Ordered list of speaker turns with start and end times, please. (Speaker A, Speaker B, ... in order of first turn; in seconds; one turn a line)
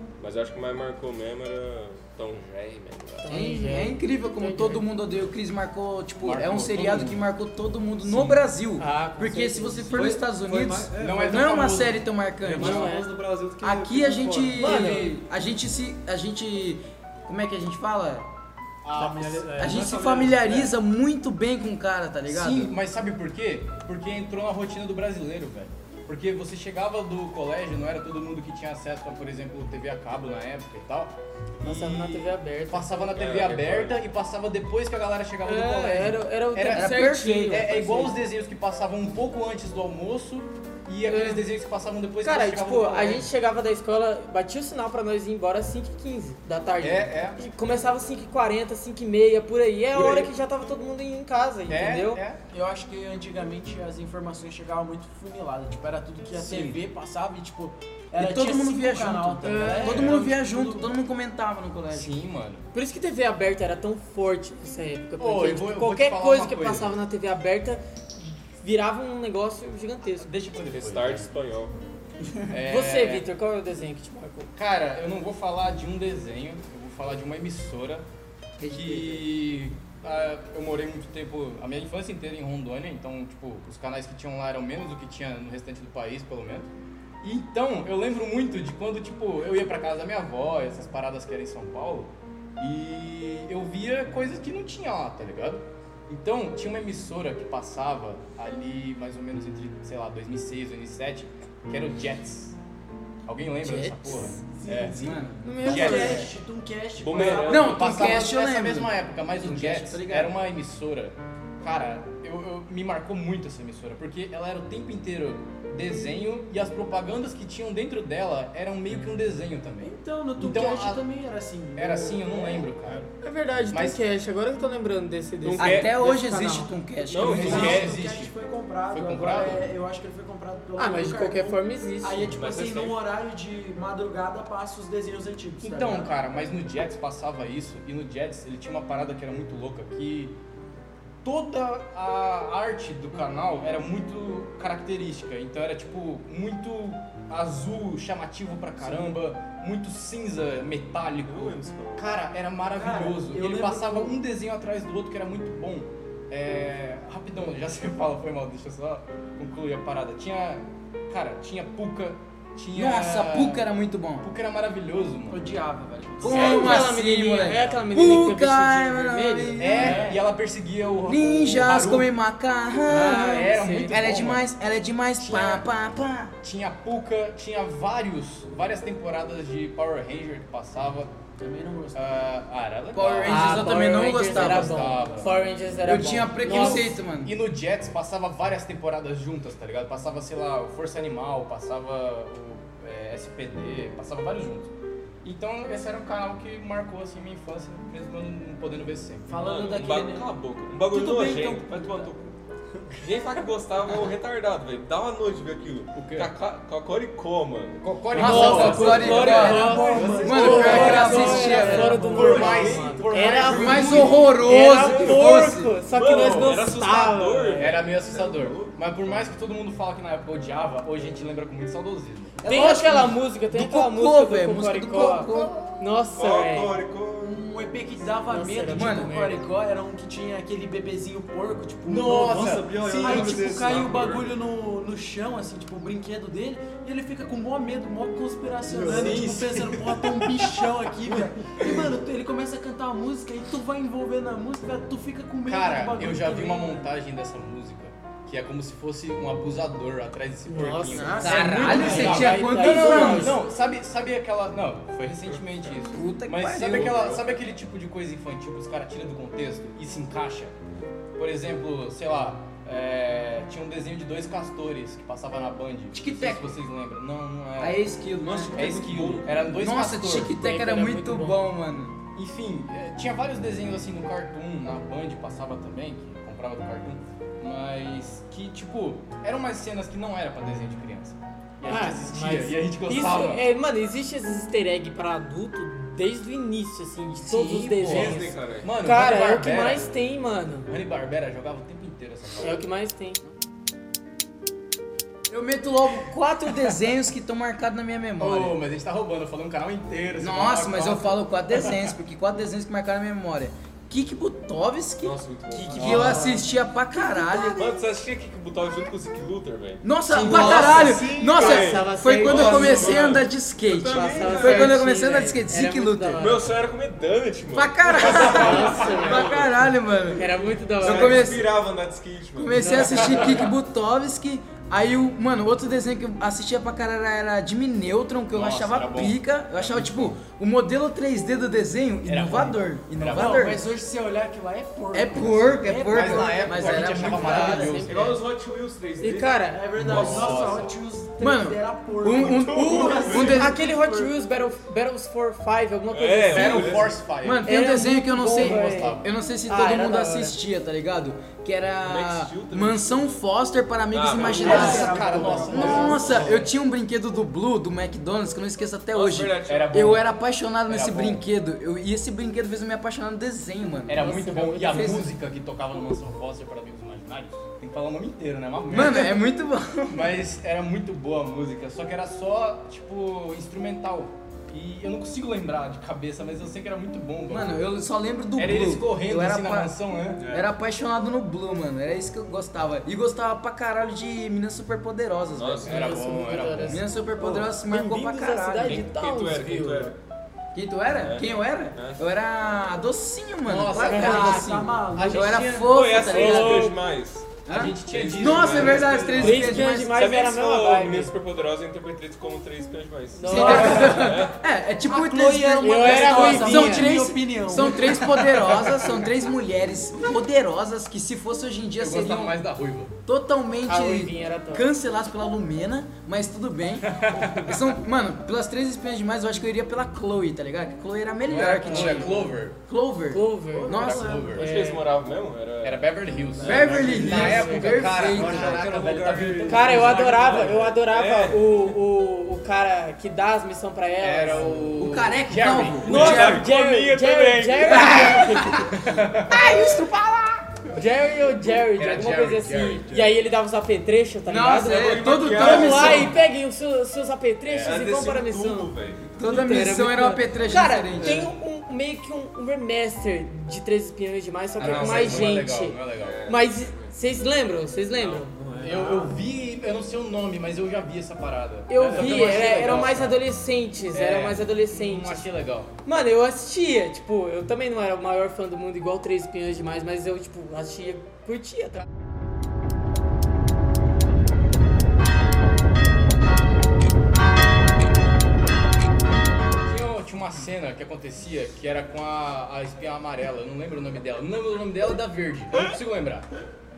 Speaker A: 0.2-3.3
Speaker B: 3.2-4.9
Speaker C: 3.3-12.9
Speaker D: 6.2-7.2
Speaker D: 8.0-8.4
Speaker B: 8.8-10.0
Speaker E: 9.9-11.6
Speaker D: 11.0-12.1
Speaker E: 12.4-14.9
Speaker B: 12.6-13.1
Speaker C: 13.6-18.3
Speaker B: 14.6-15.1
Speaker D: 14.7-15.1
Speaker D: 18.8-19.8
Speaker E: 19.0-20.7
Speaker C: 19.6-22.7
Speaker D: 22.3-43.3
Speaker B: 31.6-33.1
Speaker A: 33.1-34.0
Speaker B: 35.5-38.1
Speaker C: 36.7-38.1
Speaker B: 41.1-41.4
Speaker B: 42.2-52.2
Speaker D: 46.8-47.4
Speaker D: 49.9-50.3
Speaker D: 51.7-52.4
Speaker F: 52.5-60.9
Speaker D: 56.3-56.8
Speaker C: 58.2-62.1
Speaker B: 59.4-60.0
Speaker D: 59.8-60.2
Speaker D: 61.9-62.7
Speaker B: 62.7-70.3
Speaker D: 65.2-66.9
Speaker D: 70.2-71.3
Speaker A: 70.7-71.8
Speaker D: 72.5-73.3
Speaker B: 72.7-74.5
Speaker D: 74.5-78.0
Speaker C: 78.6-79.2
Speaker D: 78.7-86.7
Speaker D: 87.2-102.6
Speaker D: 103.3-106.3
Speaker B: 103.6-104.4
Speaker F: 104.6-107.7
Speaker C: 104.8-106.2
Speaker B: 105.4-106.2
Speaker A: 107.0-108.0
Speaker C: 107.4-110.4
Speaker D: 107.6-121.0
Speaker F: 119.8-122.7
Speaker D: 121.8-123.1
Speaker B: 123.2-126.7
Speaker D: 123.7-124.0
Speaker A: 125.5-126.0
Speaker C: 125.6-127.7
Speaker A: 127.1-128.0
Speaker D: 127.2-128.3
Speaker F: 127.2-136.1
Speaker D: 128.9-129.7
Speaker B: 130.8-132.3
Speaker A: 132.3-133.0
Speaker D: 135.6-140.3
Speaker D: 141.2-163.7
Speaker A: 151.3-152.1
Speaker E: 151.3-151.9
Speaker F: 152.7-154.2
Speaker C: 162.7-164.3
Speaker D: 164.2-165.4
Speaker F: 165.3-166.8
Speaker C: 166.2-170.1
Speaker B: 166.3-170.1
Speaker D: 166.3-166.8
Speaker D: 169.6-172.1
Speaker F: 169.8-170.2
Speaker C: 171.1-176.3
Speaker B: 172.9-173.9
Speaker D: 173.1-174.5
Speaker D: 175.2-175.6
Speaker D: 176.4-181.1
Speaker F: 181.4-182.2
Speaker D: 181.9-185.3
Speaker C: 182.9-185.0
Speaker B: 183.2-186.9
Speaker C: 185.9-187.3
Speaker D: 186.4-194.7
Speaker D: 195.2-199.3
Speaker F: 199.3-202.1
Speaker A: 199.4-202.3
Speaker A: 202.9-207.9
Speaker D: 205.9-206.3
Speaker D: 207.8-214.3
Speaker C: 208.1-212.1
Speaker B: 208.2-217.7
Speaker F: 208.3-212.9
Speaker A: 208.4-209.4
Speaker E: 209.9-210.9
Speaker A: 212.2-218.8
Speaker C: 213.5-215.7
Speaker D: 216.2-216.5
Speaker D: 217.6-222.4
Speaker C: 222.4-225.6
Speaker B: 222.4-226.7
Speaker A: 225.7-227.4
Speaker F: 227.2-246.9
Speaker B: 228.2-229.4
Speaker C: 228.7-229.1
Speaker D: 231.9-233.8
Speaker E: 232.2-234.2
Speaker A: 233.7-234.3
Speaker E: 238.7-239.3
Speaker D: 238.8-240.3
Speaker D: 245.5-260.6
Speaker B: 250.5-253.4
Speaker F: 250.9-252.2
Speaker C: 251.2-253.4
Speaker C: 255.9-257.2
Speaker A: 256.7-257.2
Speaker D: 261.2-267.8
Speaker C: 265.9-266.6
Speaker C: 267.6-268.6
Speaker E: 268.2-269.4
Speaker D: 268.5-270.4
Speaker C: 269.6-272.0
Speaker B: 270.3-271.4
Speaker D: 272.1-283.4
Speaker B: 281.6-290.7
Speaker D: 287.2-289.9
Speaker A: 287.8-288.7
Speaker D: 290.7-292.6
Speaker B: 292.4-293.2
Speaker C: 295.3-298.6
Speaker D: 298.2-301.9
Speaker C: 300.2-305.2
Speaker A: 305.0-306.3
Speaker F: 305.6-306.4
Speaker C: 305.7-307.7
Speaker D: 305.8-306.4
Speaker B: 306.0-306.3
Speaker F: 306.9-307.9
Speaker A: 307.6-314.8
Speaker C: 309.8-316.3
Speaker B: 310.1-313.2
Speaker B: 313.9-316.5
Speaker A: 316.2-319.7
Speaker C: 317.5-320.2
Speaker B: 318.0-319.4
Speaker B: 320.1-321.4
Speaker A: 320.8-323.5
Speaker C: 320.8-321.5
Speaker C: 322.4-333.6
Speaker B: 322.6-323.4
Speaker D: 322.9-323.4
Speaker D: 328.3-330.2
Speaker D: 332.1-333.4
Speaker F: 333.1-337.6
Speaker C: 334.9-337.8
Speaker D: 335.9-338.2
Speaker B: 337.0-338.2
Speaker A: 337.9-340.7
Speaker B: 339.0-339.6
Speaker F: 339.5-344.1
Speaker D: 339.8-340.7
Speaker C: 341.2-343.6
Speaker A: 342.2-343.5
Speaker B: 343.2-346.8
Speaker A: 345.9-346.9
Speaker D: 346.3-347.5
Speaker C: 347.2-364.1
Speaker B: 347.5-350.4
Speaker D: 348.3-349.1
Speaker A: 351.9-353.2
Speaker A: 353.9-356.2
Speaker F: 354.2-356.2
Speaker D: 354.3-356.5
Speaker B: 354.3-356.3
Speaker E: 356.0-356.4
Speaker A: 358.9-360.0
Speaker D: 359.5-360.1
Speaker D: 360.7-361.2
Speaker D: 363.9-369.3
Speaker B: 363.9-365.1
Speaker C: 364.6-365.1
Speaker C: 368.7-370.2
Speaker D: 369.9-377.7
Speaker C: 377.3-379.7
Speaker D: 378.4-380.2
Speaker C: 380.3-386.0
Speaker A: 385.4-385.9
Speaker D: 385.7-386.8
Speaker B: 385.7-389.9
Speaker C: 386.6-388.9
Speaker A: 388.7-390.0
Speaker C: 390.5-396.7
Speaker A: 391.0-392.0
Speaker D: 393.5-395.8
Speaker F: 393.8-395.6
Speaker B: 393.9-394.3
Speaker A: 395.6-399.2
Speaker B: 396.2-396.8
Speaker C: 397.5-400.0
Speaker D: 397.5-399.7
Speaker B: 399.1-401.1
Speaker A: 399.8-404.4
Speaker B: 403.1-404.0
Speaker C: 403.3-412.4
Speaker F: 403.4-404.0
Speaker F: 404.9-408.1
Speaker B: 405.6-406.9
Speaker D: 407.8-408.7
Speaker D: 411.8-412.9
Speaker C: 413.1-424.3
Speaker B: 413.6-414.7
Speaker D: 416.8-417.6
Speaker D: 421.3-422.6
Speaker B: 421.6-422.2
Speaker B: 423.1-423.8
Speaker F: 423.6-424.4
Speaker D: 423.6-424.5
Speaker B: 424.4-424.9
Speaker A: 424.4-426.8
Speaker D: 425.6-430.6
Speaker C: 426.4-428.6
Speaker E: 426.5-430.8
Speaker B: 426.9-428.0
Speaker B: 429.4-434.6
Speaker A: 430.8-431.7
Speaker D: 434.0-436.5
Speaker E: 434.4-434.7
Speaker C: 434.8-436.4
Speaker A: 435.9-438.1
Speaker B: 435.9-438.7
Speaker D: 437.7-439.4
Speaker C: 437.7-440.4
Speaker B: 440.7-458.3
Speaker D: 441.8-443.0
Speaker C: 444.3-446.1
Speaker A: 444.6-446.2
Speaker D: 447.5-447.8
Speaker A: 447.6-449.2
Speaker C: 449.2-451.3
Speaker A: 454.6-455.4
Speaker D: 454.6-456.2
Speaker A: 456.0-456.9
Speaker D: 458.0-463.2
Speaker E: 458.3-459.2
Speaker B: 461.7-465.2
Speaker E: 461.8-462.9
Speaker D: 463.9-465.7
Speaker B: 465.9-471.8
Speaker D: 479.6-486.3